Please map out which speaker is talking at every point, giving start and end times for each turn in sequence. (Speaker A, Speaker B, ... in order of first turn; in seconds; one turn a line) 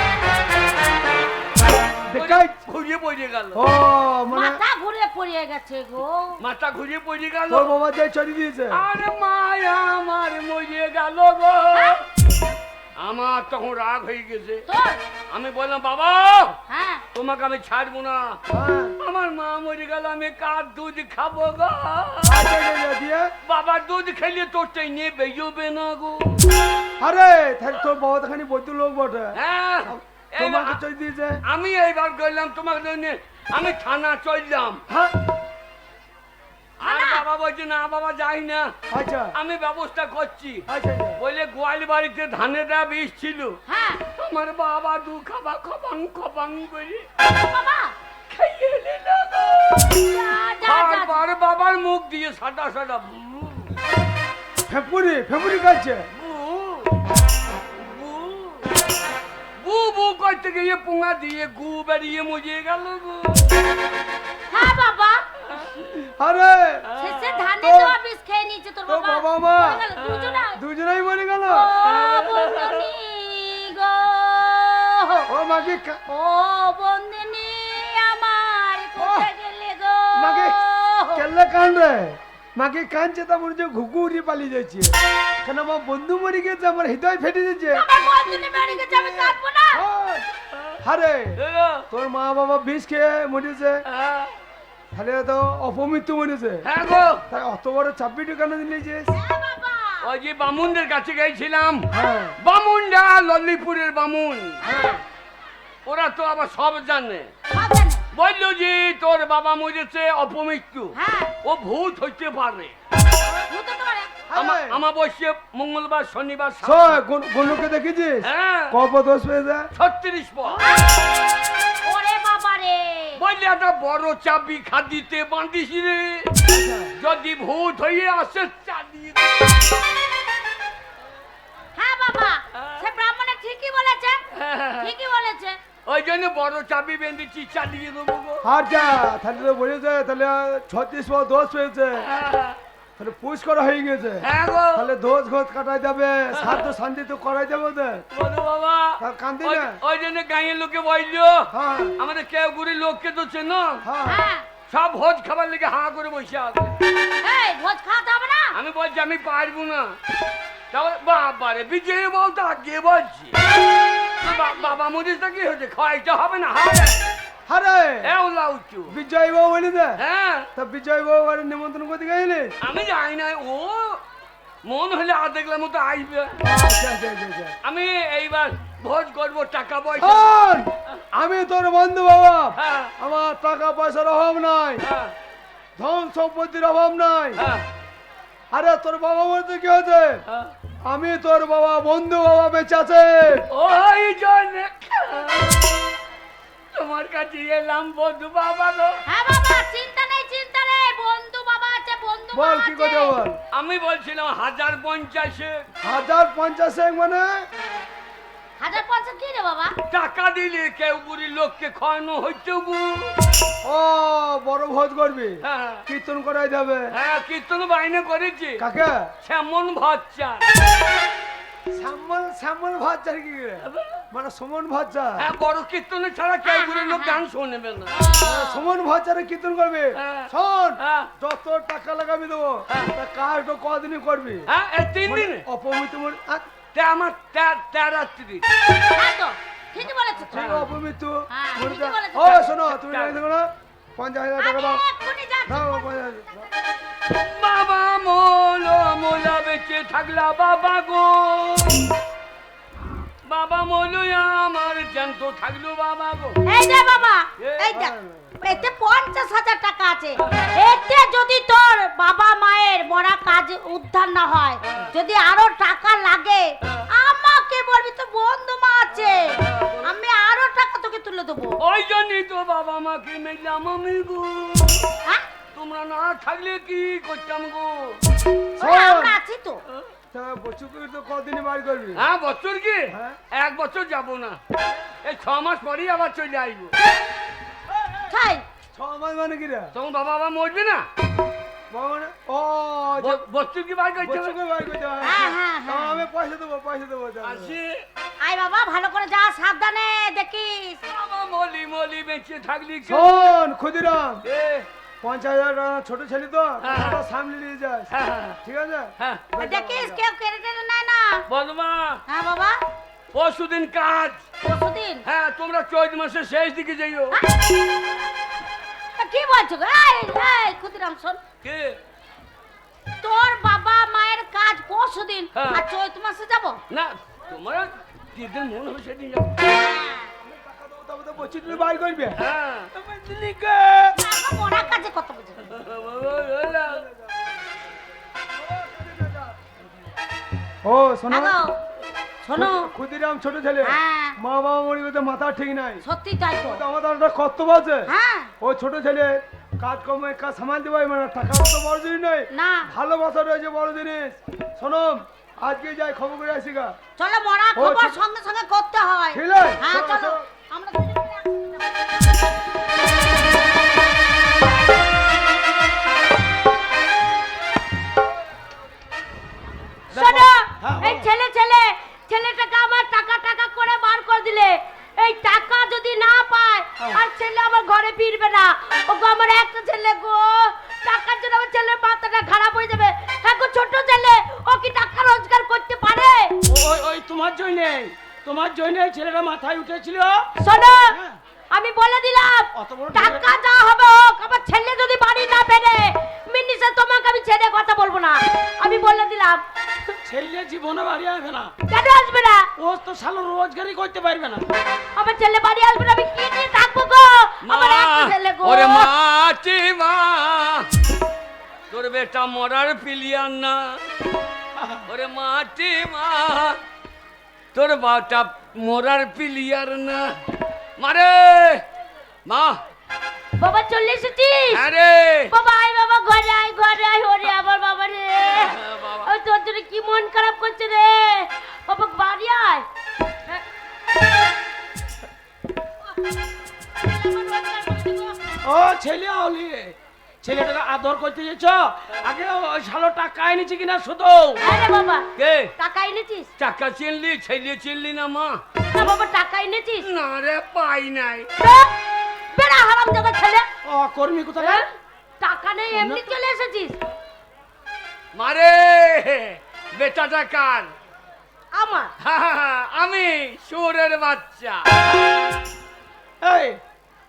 Speaker A: 2.1-2.6
Speaker B: 2.1-3.6
Speaker A: 3.5-4.6
Speaker C: 4.3-6.4
Speaker B: 6.4-7.7
Speaker A: 7.5-8.8
Speaker B: 8.7-12.1
Speaker B: 13.0-14.7
Speaker C: 14.7-15.0
Speaker B: 15.3-16.6
Speaker C: 16.7-17.0
Speaker B: 17.1-18.4
Speaker A: 18.5-19.0
Speaker B: 19.0-22.4
Speaker A: 22.3-23.3
Speaker B: 23.5-26.4
Speaker A: 27.0-31.4
Speaker B: 29.3-30.8
Speaker B: 31.4-34.8
Speaker A: 34.9-35.2
Speaker B: 36.8-38.7
Speaker C: 36.8-37.2
Speaker A: 38.9-39.3
Speaker B: 39.3-40.6
Speaker A: 40.7-41.2
Speaker B: 41.2-43.6
Speaker C: 43.7-44.0
Speaker B: 44.2-47.1
Speaker C: 47.3-47.9
Speaker B: 48.3-53.7
Speaker C: 50.0-51.2
Speaker A: 54.7-56.1
Speaker B: 56.1-57.0
Speaker B: 57.8-58.7
Speaker B: 59.6-63.6
Speaker C: 64.5-65.2
Speaker B: 65.5-65.9
Speaker A: 66.2-66.9
Speaker B: 67.0-67.4
Speaker C: 67.0-70.6
Speaker A: 67.6-68.0
Speaker A: 68.9-69.8
Speaker B: 70.0-70.4
Speaker A: 70.5-71.7
Speaker C: 71.5-75.3
Speaker B: 71.8-72.9
Speaker A: 75.3-76.0
Speaker C: 76.1-81.2
Speaker A: 79.0-79.3
Speaker A: 80.2-80.6
Speaker A: 81.1-87.9
Speaker C: 87.7-89.8
Speaker A: 88.9-90.3
Speaker A: 90.8-91.4
Speaker B: 91.4-91.9
Speaker A: 91.9-93.8
Speaker B: 93.9-94.3
Speaker A: 94.9-96.7
Speaker B: 96.6-97.2
Speaker A: 97.3-99.1
Speaker C: 99.1-100.0
Speaker B: 100.0-104.6
Speaker A: 101.9-102.3
Speaker C: 104.6-105.0
Speaker A: 104.7-105.0
Speaker B: 105.9-107.3
Speaker C: 107.5-108.0
Speaker B: 108.1-112.8
Speaker C: 111.0-111.3
Speaker C: 113.5-114.1
Speaker A: 114.3-114.8
Speaker B: 114.3-117.0
Speaker A: 116.6-119.7
Speaker B: 118.2-118.8
Speaker B: 119.8-120.6
Speaker A: 120.5-120.8
Speaker C: 120.6-120.9
Speaker C: 121.8-123.2
Speaker B: 123.2-126.3
Speaker A: 126.5-126.9
Speaker B: 127.0-129.6
Speaker C: 131.8-134.2
Speaker B: 132.6-132.9
Speaker B: 134.3-134.9
Speaker C: 134.8-135.6
Speaker B: 135.9-138.5
Speaker A: 138.4-142.1
Speaker B: 142.0-142.6
Speaker A: 143.0-148.1
Speaker B: 144.2-144.9
Speaker B: 146.3-146.7
Speaker B: 148.1-153.8
Speaker A: 149.0-149.8
Speaker A: 151.5-152.0
Speaker A: 153.8-154.2
Speaker C: 154.1-154.4
Speaker B: 154.7-156.8
Speaker C: 157.2-158.6
Speaker B: 158.5-160.0
Speaker B: 160.7-163.4
Speaker C: 164.2-164.8
Speaker B: 164.2-167.1
Speaker A: 167.5-168.1
Speaker B: 168.0-168.9
Speaker A: 168.9-170.0
Speaker B: 170.0-170.5
Speaker A: 170.6-172.6
Speaker B: 172.6-174.0
Speaker B: 174.7-176.4
Speaker A: 176.4-177.6
Speaker B: 177.6-180.4
Speaker A: 180.0-184.8
Speaker B: 182.6-182.9
Speaker B: 184.8-185.1
Speaker A: 185.8-187.4
Speaker B: 187.4-187.7
Speaker A: 188.5-190.2
Speaker A: 190.8-193.5
Speaker B: 193.5-195.8
Speaker B: 196.7-199.0
Speaker C: 199.1-203.2
Speaker A: 202.3-203.4
Speaker B: 203.5-205.7
Speaker A: 205.8-207.5
Speaker C: 208.6-209.7
Speaker B: 209.9-213.1
Speaker A: 213.6-216.9
Speaker B: 215.4-215.8
Speaker B: 216.9-218.6
Speaker A: 218.6-219.1
Speaker B: 219.2-220.5
Speaker A: 221.7-225.3
Speaker B: 223.6-224.0
Speaker B: 225.2-228.0
Speaker C: 226.4-227.2
Speaker C: 227.9-228.7
Speaker A: 228.2-234.5
Speaker B: 229.9-231.1
Speaker B: 234.5-235.4
Speaker A: 235.1-236.5
Speaker B: 236.7-238.4
Speaker C: 238.9-240.6
Speaker A: 240.2-244.8
Speaker B: 240.3-240.7
Speaker C: 241.3-242.5
Speaker B: 242.7-243.2
Speaker C: 244.4-245.9
Speaker A: 245.5-246.5
Speaker B: 247.1-251.9
Speaker B: 253.3-256.4
Speaker C: 256.5-271.6
Speaker B: 257.4-257.7
Speaker A: 257.7-258.6
Speaker B: 260.2-260.5
Speaker B: 264.6-264.9
Speaker B: 269.0-269.9
Speaker B: 271.6-274.9
Speaker B: 275.5-278.0
Speaker C: 278.6-279.6
Speaker A: 278.6-279.2
Speaker A: 280.1-282.0
Speaker B: 282.0-284.4
Speaker A: 282.9-283.2
Speaker B: 285.0-286.7
Speaker A: 287.7-288.1
Speaker C: 288.1-288.4
Speaker A: 288.7-289.7
Speaker B: 289.7-290.9
Speaker A: 291.7-293.2
Speaker B: 293.0-294.4
Speaker A: 294.0-297.6
Speaker C: 295.0-296.1
Speaker B: 297.2-297.9
Speaker C: 298.2-300.8
Speaker B: 300.9-303.2
Speaker A: 302.9-304.2
Speaker B: 304.2-304.7
Speaker A: 305.0-307.9
Speaker B: 306.6-307.0
Speaker B: 307.9-308.4
Speaker A: 308.4-310.1
Speaker B: 309.0-309.2
Speaker C: 309.4-311.2
Speaker B: 311.3-312.0
Speaker C: 312.1-312.6
Speaker B: 313.1-314.2
Speaker C: 314.4-315.0
Speaker B: 315.1-317.2
Speaker C: 319.0-321.2
Speaker B: 321.4-321.8
Speaker C: 323.0-326.6
Speaker B: 325.3-325.6
Speaker B: 326.7-329.4
Speaker C: 329.5-330.1
Speaker A: 330.2-332.2
Speaker B: 332.2-332.7
Speaker D: 332.8-333.9
Speaker C: 334.0-335.4
Speaker B: 335.4-336.9
Speaker A: 336.7-337.4
Speaker A: 338.3-339.4
Speaker A: 340.6-341.4
Speaker C: 341.1-341.6
Speaker C: 342.2-342.7
Speaker A: 342.4-345.8
Speaker C: 343.6-344.2
Speaker C: 345.9-346.6
Speaker A: 346.4-356.8
Speaker C: 347.9-348.3
Speaker C: 352.3-352.7
Speaker C: 357.0-361.5
Speaker A: 357.6-358.0
Speaker A: 359.1-360.2
Speaker D: 369.9-371.1
Speaker C: 369.9-386.4
Speaker D: 386.5-390.3
Speaker C: 390.4-391.0
Speaker D: 390.9-391.2
Speaker C: 391.5-399.9
Speaker D: 392.6-393.3
Speaker D: 400.1-401.5
Speaker C: 401.7-402.5
Speaker D: 402.6-404.5
Speaker C: 405.0-408.9
Speaker B: 407.4-410.7
Speaker B: 411.7-413.8
Speaker D: 414.6-414.8
Speaker B: 414.9-416.6
Speaker B: 417.5-420.2
Speaker B: 420.8-421.6
Speaker B: 422.3-422.6
Speaker C: 423.4-424.6
Speaker B: 424.5-425.3
Speaker C: 425.3-432.6
Speaker B: 428.3-429.1
Speaker C: 436.8-438.2
Speaker D: 438.4-444.4
Speaker C: 444.4-446.3
Speaker B: 445.2-445.5
Speaker B: 446.4-448.4
Speaker C: 448.7-449.9
Speaker B: 449.8-451.3
Speaker C: 451.4-451.7
Speaker C: 452.4-453.5
Speaker D: 453.6-454.7
Speaker C: 454.4-454.7
Speaker C: 455.2-456.8
Speaker D: 455.7-456.1
Speaker B: 458.1-460.7
Speaker C: 461.5-461.9
Speaker B: 462.0-464.7
Speaker D: 466.2-466.6